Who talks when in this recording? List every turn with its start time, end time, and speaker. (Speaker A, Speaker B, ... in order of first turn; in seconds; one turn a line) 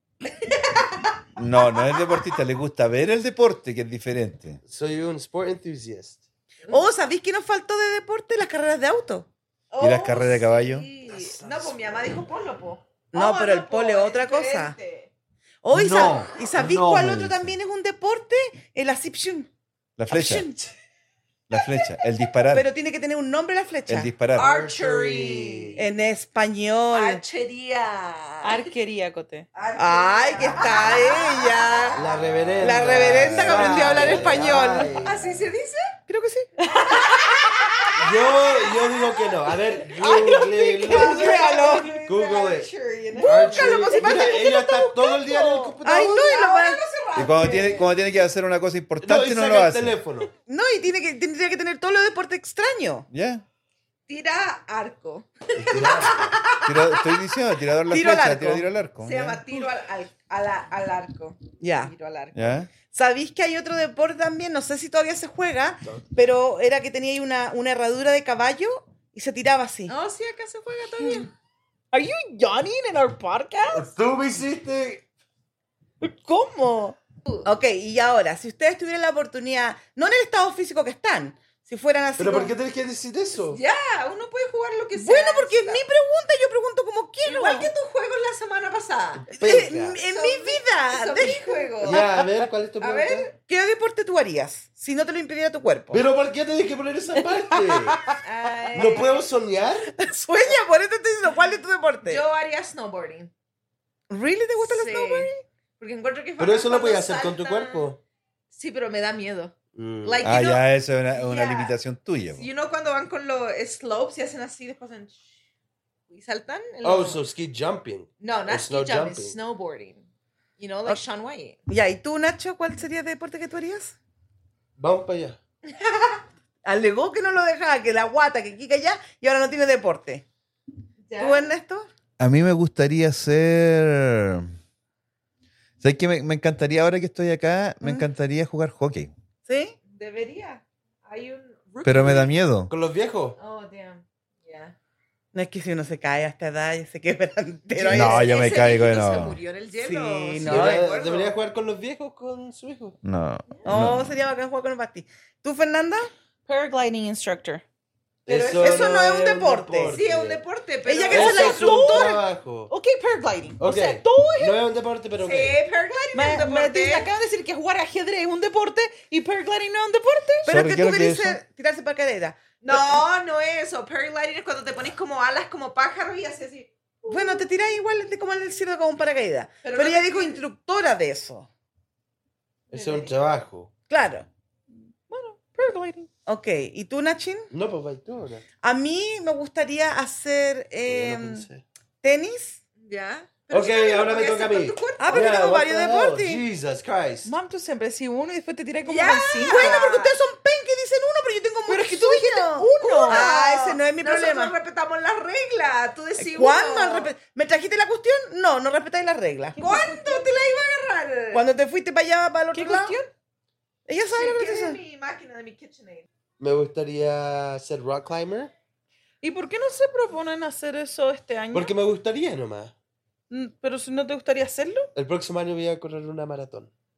Speaker A: 0.2-1.2
Speaker B: 1.4-4.6
Speaker C: 4.7-6.2
Speaker D: 6.7-9.3
Speaker A: 9.7-15.1
Speaker B: 9.8-10.9
Speaker C: 11.1-12.2
Speaker D: 13.1-14.7
Speaker D: 15.6-19.5
Speaker B: 15.7-17.5
Speaker B: 20.0-20.5
Speaker D: 20.1-20.6
Speaker B: 21.5-22.6
Speaker D: 22.5-24.1
Speaker B: 23.9-24.5
Speaker C: 24.4-25.8
Speaker A: 24.4-25.8
Speaker D: 25.8-27.2
Speaker A: 26.9-28.7
Speaker E: 28.4-29.4
Speaker A: 29.5-32.6
Speaker D: 29.8-32.0
Speaker C: 31.9-35.4
Speaker D: 32.6-35.0
Speaker B: 33.1-34.0
Speaker A: 35.0-36.0
Speaker D: 36.1-36.5
Speaker E: 36.6-37.8
Speaker A: 36.9-44.3
Speaker C: 38.0-46.4
Speaker E: 40.0-41.8
Speaker D: 40.8-41.9
Speaker D: 43.2-45.0
Speaker E: 43.6-45.8
Speaker D: 45.8-46.8
Speaker A: 46.3-48.0
Speaker B: 47.1-50.0
Speaker C: 49.0-50.3
Speaker D: 50.5-53.1
Speaker B: 53.1-53.4
Speaker A: 54.1-57.2
Speaker C: 55.5-56.4
Speaker B: 56.6-59.4
Speaker D: 57.9-58.6
Speaker A: 59.0-62.6
Speaker D: 61.6-61.9
Speaker B: 62.3-62.7
Speaker D: 62.9-69.9
Speaker A: 69.9-71.3
Speaker E: 71.9-73.9
Speaker C: 73.7-75.0
Speaker E: 76.0-77.0
Speaker D: 77.4-82.5
Speaker C: 82.2-83.6
Speaker A: 83.5-85.8
Speaker D: 85.0-87.7
Speaker A: 87.2-89.3
Speaker C: 89.2-90.0
Speaker D: 89.3-92.0
Speaker A: 90.1-92.1
Speaker C: 91.8-93.3
Speaker A: 92.8-93.3
Speaker D: 93.5-96.0
Speaker C: 95.9-98.0
Speaker A: 98.2-99.3
Speaker D: 98.7-99.0
Speaker C: 98.7-100.0
Speaker D: 100.0-102.2
Speaker A: 102.0-103.3
Speaker D: 104.1-105.4
Speaker A: 104.6-107.9
Speaker C: 106.4-108.0
Speaker A: 108.5-111.7
Speaker C: 109.7-110.3
Speaker B: 110.2-112.5
Speaker A: 112.3-115.2
Speaker A: 116.1-117.2
Speaker C: 116.8-119.3
Speaker A: 118.2-120.1
Speaker A: 120.6-121.6
Speaker D: 121.7-124.0
Speaker C: 124.8-125.4
Speaker A: 125.7-126.2
Speaker D: 126.6-130.2
Speaker A: 131.0-131.5
Speaker D: 131.2-131.9
Speaker B: 132.2-134.5
Speaker B: 135.8-139.1
Speaker D: 139.5-139.8
Speaker A: 139.9-142.3
Speaker B: 141.8-142.7
Speaker C: 142.7-143.4
Speaker A: 143.4-144.7
Speaker D: 145.3-148.3
Speaker A: 147.7-151.4
Speaker B: 147.9-149.4
Speaker D: 149.8-150.8
Speaker C: 150.4-153.0
Speaker B: 153.0-154.2
Speaker D: 153.6-156.1
Speaker E: 156.5-157.6
Speaker A: 158.2-159.0
Speaker C: 158.2-160.4
Speaker D: 158.6-160.0
Speaker A: 159.9-162.2
Speaker E: 160.9-164.6
Speaker C: 161.1-162.7
Speaker C: 163.6-165.6
Speaker A: 165.2-167.1
Speaker E: 166.1-170.5
Speaker D: 170.4-173.0
Speaker B: 170.5-171.4
Speaker A: 172.6-177.5
Speaker D: 177.1-181.5
Speaker A: 179.6-180.4
Speaker A: 182.7-183.1
Speaker C: 182.7-183.7
Speaker D: 183.9-184.3
Speaker E: 185.1-186.1
Speaker D: 186.3-187.5
Speaker C: 187.5-188.4
Speaker D: 188.6-191.4
Speaker C: 190.9-191.6
Speaker D: 192.0-192.6
Speaker A: 192.8-195.4
Speaker C: 193.5-197.3
Speaker D: 195.0-196.4
Speaker E: 197.2-199.8
Speaker A: 198.8-200.1
Speaker D: 199.4-204.5
Speaker E: 201.7-203.3
Speaker A: 202.8-207.1
Speaker D: 206.2-209.6
Speaker E: 209.6-210.3
Speaker A: 209.6-211.4
Speaker D: 211.3-213.0
Speaker E: 212.5-213.1
Speaker D: 213.9-214.8
Speaker A: 214.1-216.1
Speaker C: 216.4-218.5
Speaker E: 219.2-221.7
Speaker C: 221.5-222.7
Speaker E: 223.3-224.9
Speaker C: 224.9-226.7